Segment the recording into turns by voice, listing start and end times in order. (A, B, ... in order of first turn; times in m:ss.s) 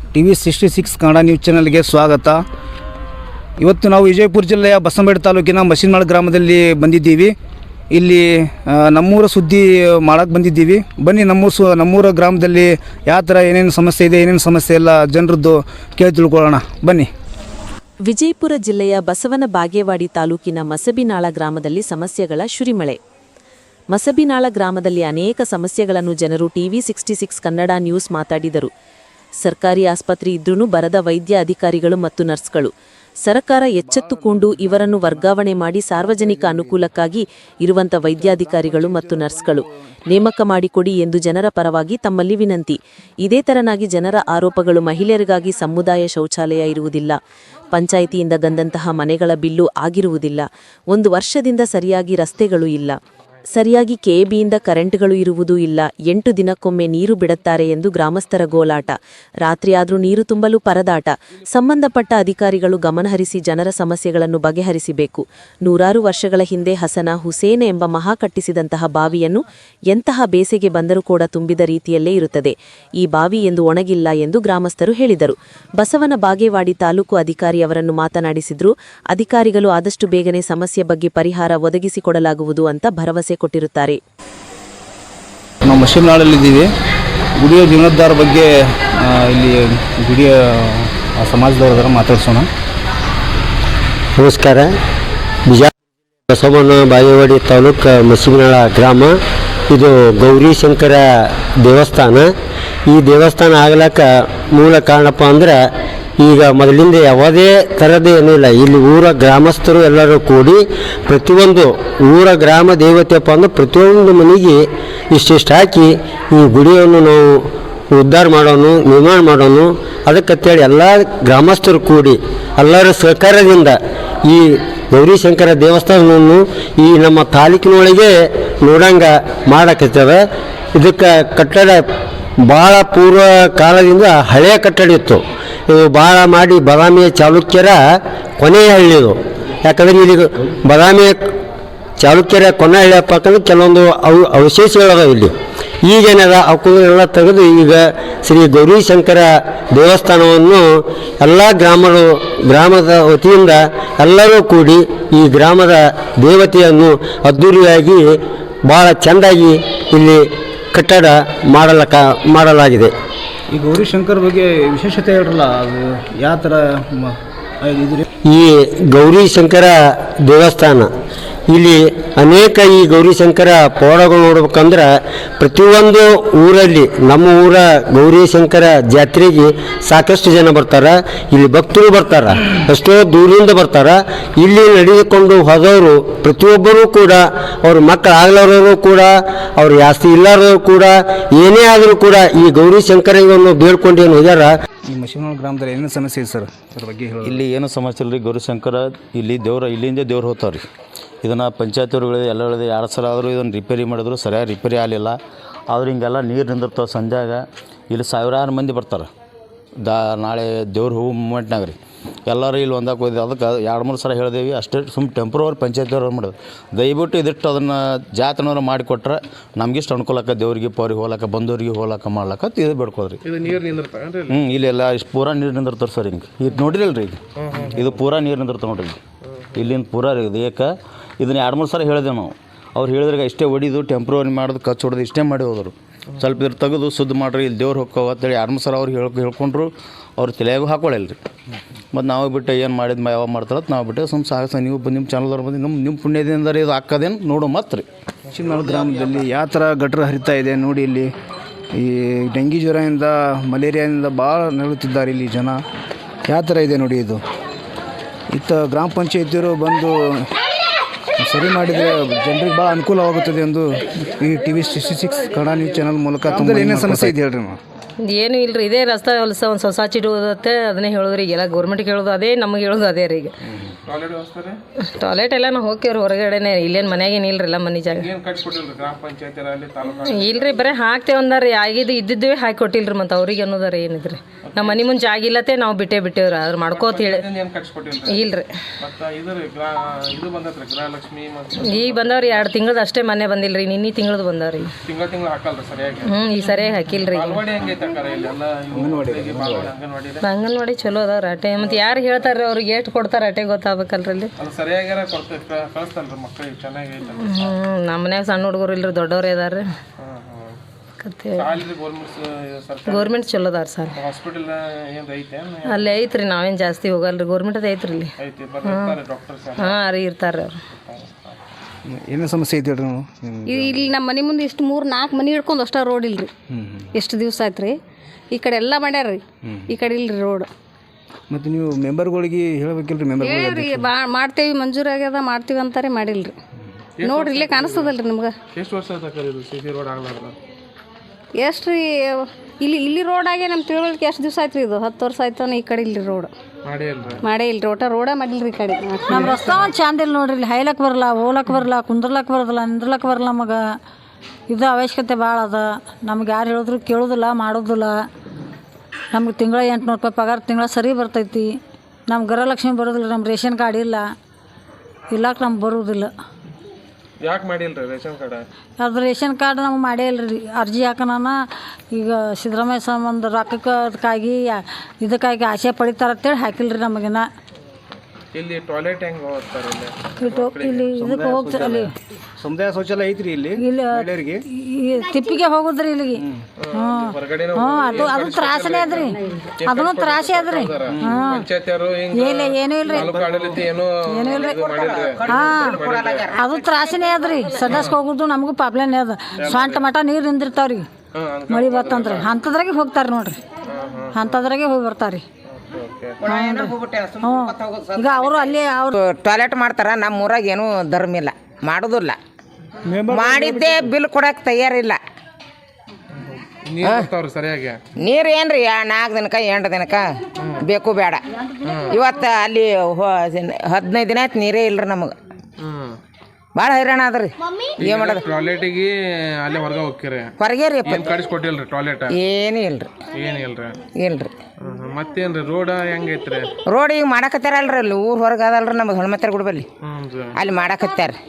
0:00.1-0:02.4 A
0:03.6-0:07.3 A
0:07.9-0:17.1 A
0:18.0-0:23.0 B
0:23.9-0:28.7 B
0:29.4-0:32.7 B
0:33.2-0:47.2 B
0:33.8-0:35.3 A
0:36.0-0:36.8 A
0:38.1-0:39.6 A
0:47.7-0:53.0 B
0:53.5-1:24.0 B
1:25.6-1:26.7 A
1:27.4-1:32.5 A
1:34.2-1:34.7 C
1:36.3-1:39.1 C
1:39.7-1:41.0 C
1:41.6-1:42.3 C
1:42.9-1:45.6 C
1:46.2-2:10.2 C
2:10.7-2:11.8 C
2:12.4-2:17.8 C
2:18.4-2:21.2 C
2:22.0-2:25.3 C
2:25.8-2:42.9 C
2:43.5-2:48.0 A
2:48.2-2:50.9 C
2:51.5-3:14.5 C
3:14.9-3:17.4 A
3:17.3-3:20.6 D
3:21.2-3:25.2 D
3:25.7-3:29.1 D
3:29.8-3:43.2 D
3:43.3-3:44.4 E
3:44.3-3:47.2 D
3:47.4-3:48.0 E
3:47.7-3:49.0 D
3:49.4-3:49.7 E
3:49.6-4:01.2 D
4:01.9-4:07.8 D
4:08.3-4:11.1 A
4:11.7-4:15.6 A
4:16.3-4:17.2 A
4:18.3-4:20.2 A
4:21.2-4:27.6 A
4:28.0-4:33.3 F
4:33.9-4:34.6 E
4:35.0-4:38.1 F
4:37.9-4:40.6 E
4:40.0-4:47.3 F
4:44.5-4:44.9 E
4:46.7-4:48.2 E
4:48.1-4:48.5 F
4:48.8-4:52.5 E
4:51.6-4:54.7 F
4:54.9-4:56.1 E
4:56.1-4:57.4 F
4:57.1-5:00.2 E
4:58.7-4:59.7 A
5:00.2-5:04.3 F
5:01.6-5:01.8 E
5:04.4-5:07.5 E
5:07.2-5:09.6 F
5:10.0-5:10.6 E
5:11.0-5:11.5 F
5:11.4-5:13.1 E
5:12.9-5:13.9 F
5:14.0-5:16.0 E
5:15.7-5:18.1 F
5:18.2-5:19.8 E
5:18.6-5:19.0 F
5:19.6-5:20.6 F
5:20.7-5:21.4 E
5:21.9-5:23.8 A
5:23.4-5:26.3 G
5:26.5-5:26.8 A
5:26.9-5:27.8 G
5:28.3-5:30.5 G
5:31.3-5:33.9 A
5:33.2-5:36.3 G
5:37.0-5:37.9 E
5:37.0-5:38.4 G
5:38.5-5:40.4 E
5:41.4-5:46.3 G
5:46.6-5:47.2 E
5:47.2-5:49.2 G
5:49.1-5:53.6 H
5:54.5-5:58.1 H
5:59.1-6:04.1 H
6:05.1-6:06.1 H
6:07.2-6:08.4 E
6:08.8-6:11.4 H
6:11.9-6:17.3 H
6:18.3-6:20.9 E
6:20.2-6:21.9 H
6:21.0-6:21.8 A
6:22.4-6:24.4 A
6:23.6-6:31.4 H
6:26.6-6:36.2 E
6:30.9-6:31.2 A
6:32.1-6:33.2 H
6:33.0-6:33.3 A
6:34.0-6:34.6 H
6:34.4-6:36.6 I
6:35.2-6:35.8 H
6:36.3-6:40.9 H
6:37.7-6:38.0 E
6:39.4-6:39.8 E
6:41.1-6:42.3 E
6:41.5-6:43.4 H
6:43.7-6:44.4 E
6:44.1-6:45.2 H
6:45.5-6:46.2 E
6:46.2-6:52.2 I
6:46.2-6:48.9 H
6:52.9-6:53.9 A
6:53.1-6:55.0 I
6:56.3-6:57.8 E
6:58.0-7:01.2 I
7:01.6-7:02.0 E
7:01.9-7:05.1 I
7:05.6-7:06.0 E
7:06.6-7:08.2 I
7:07.8-7:10.3 E
7:10.4-7:11.1 I
7:10.8-7:12.1 E
7:12.1-7:12.9 I
7:13.1-7:13.8 E
7:14.0-7:14.3 I
7:14.6-7:16.5 E
7:16.7-7:19.7 I
7:19.8-7:20.4 E
7:20.4-7:21.2 I